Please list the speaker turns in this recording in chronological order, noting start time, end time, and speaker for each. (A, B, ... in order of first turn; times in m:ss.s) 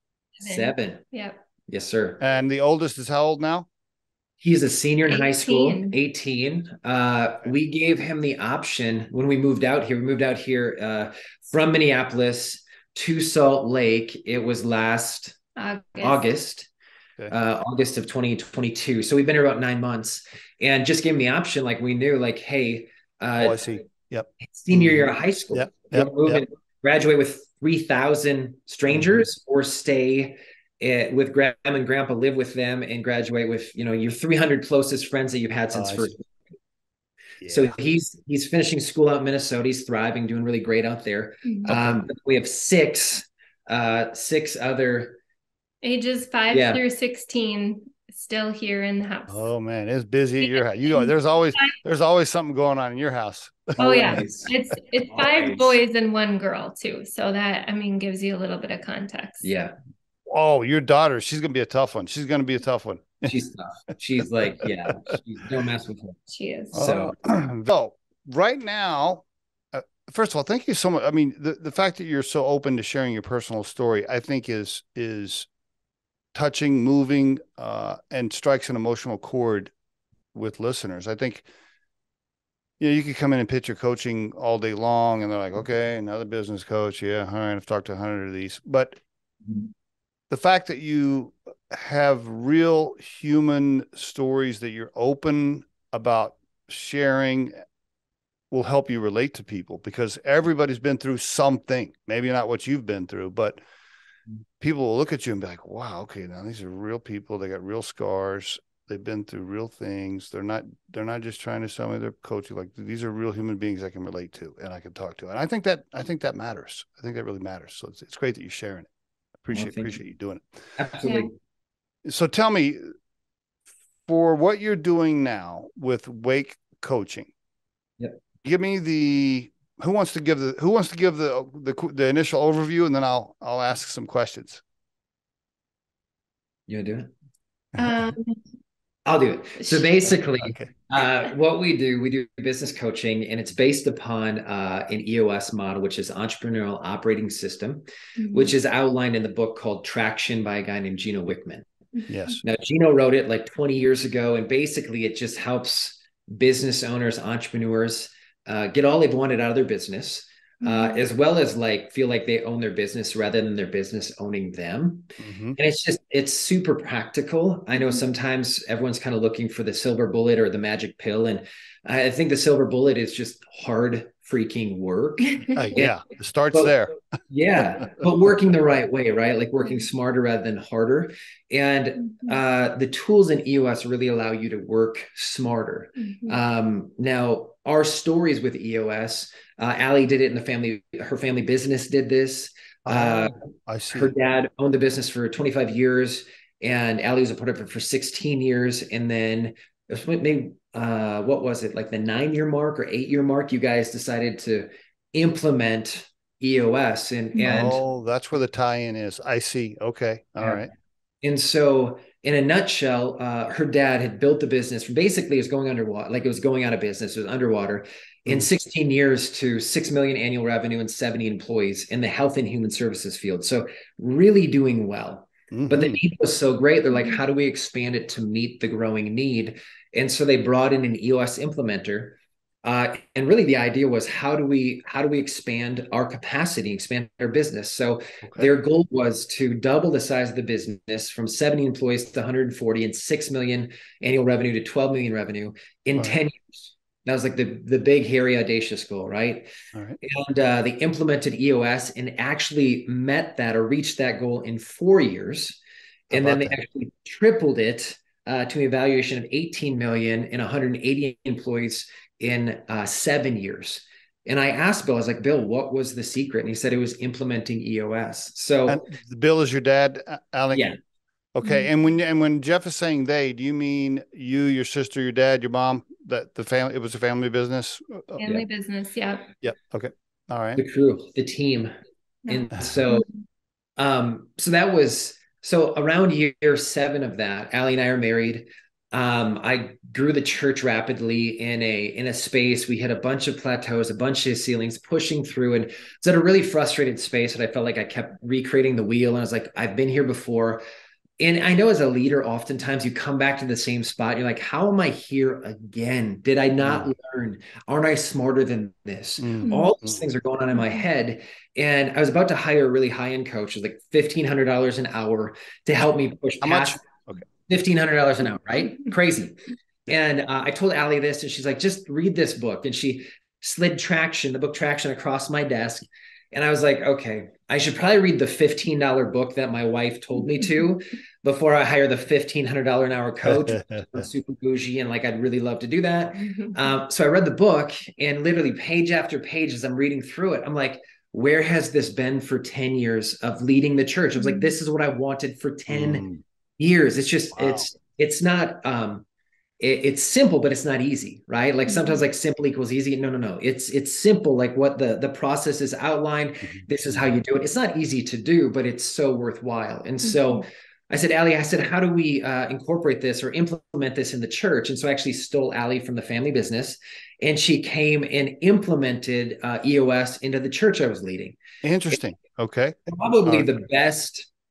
0:00.4-0:01.4 A
0:00.4-0:01.0 B
0:01.7-0:02.2 B
0:02.2-0:03.7 C
0:04.4-0:15.4 B
0:05.1-0:06.0 A
0:15.6-0:16.2 A
0:16.0-0:16.7 B
0:17.3-0:23.7 B
0:23.4-0:26.4 C
0:24.4-0:36.3 B
0:28.9-0:29.2 C
0:35.7-0:36.1 C
0:37.4-0:37.7 C
0:37.5-0:45.2 B
0:41.7-0:42.0 C
0:45.8-0:49.5 A
0:46.5-0:46.8 B
0:49.3-0:54.2 C
0:50.4-0:51.8 A
0:53.8-0:54.5 B
0:53.8-0:59.5 A
0:55.1-0:55.8 B
0:59.4-0:59.8 B
1:00.3-1:03.3 C
1:03.2-1:06.2 B
1:04.9-1:05.1 C
1:06.3-1:06.9 A
1:06.7-1:07.1 B
1:06.7-1:15.5 C
1:16.3-1:19.7 C
1:20.3-1:21.4 C
1:22.8-1:29.0 C
1:30.3-1:37.6 C
1:38.5-1:43.6 C
1:44.6-1:58.9 C
1:59.4-2:00.4 C
1:59.5-2:00.0 B
2:00.8-2:01.3 B
2:01.0-2:01.3 A
2:02.0-2:02.9 C
2:04.1-2:07.3 C
2:08.4-2:14.6 C
2:16.7-2:17.1 B
2:17.8-2:18.4 A
2:19.1-2:31.7 B
2:20.4-2:20.7 C
2:28.2-2:28.5 A
2:32.1-2:32.4 C
2:32.4-2:56.0 B
2:40.6-2:41.0 A
2:45.2-2:45.6 C
2:55.2-2:55.8 A
2:55.6-2:56.9 C
2:57.3-3:13.4 B
3:02.0-3:02.4 A
3:06.0-3:06.4 A
3:12.9-3:14.1 C
3:13.9-3:27.8 B
3:27.4-3:27.7 A
3:27.5-3:30.7 C
3:31.2-4:09.5 B
3:45.5-3:46.0 C
3:58.2-3:58.5 C
4:10.0-4:15.6 B
4:16.1-4:16.6 C
4:16.1-4:28.8 B
4:28.7-4:30.7 C
4:31.4-4:38.2 C
4:31.4-4:31.7 A
4:38.2-4:39.3 A
4:39.4-4:40.6 C
4:40.6-4:41.7 B
4:42.2-4:43.2 A
4:42.3-4:43.1 B
4:43.8-5:00.6 B
5:01.2-5:46.0 B
5:06.6-5:06.9 C
5:09.2-5:10.0 C
5:09.4-5:09.7 A
5:16.4-5:17.2 C
5:33.3-5:33.9 C
5:36.2-5:36.7 A
5:44.2-5:44.5 A
5:45.7-5:46.2 C
5:46.6-5:49.0 B
5:47.3-5:47.7 C
5:49.6-6:11.4 B
5:51.7-5:52.0 A
5:56.4-5:57.0 C
6:00.1-6:00.4 A
6:11.6-6:13.6 C
6:12.9-6:14.3 B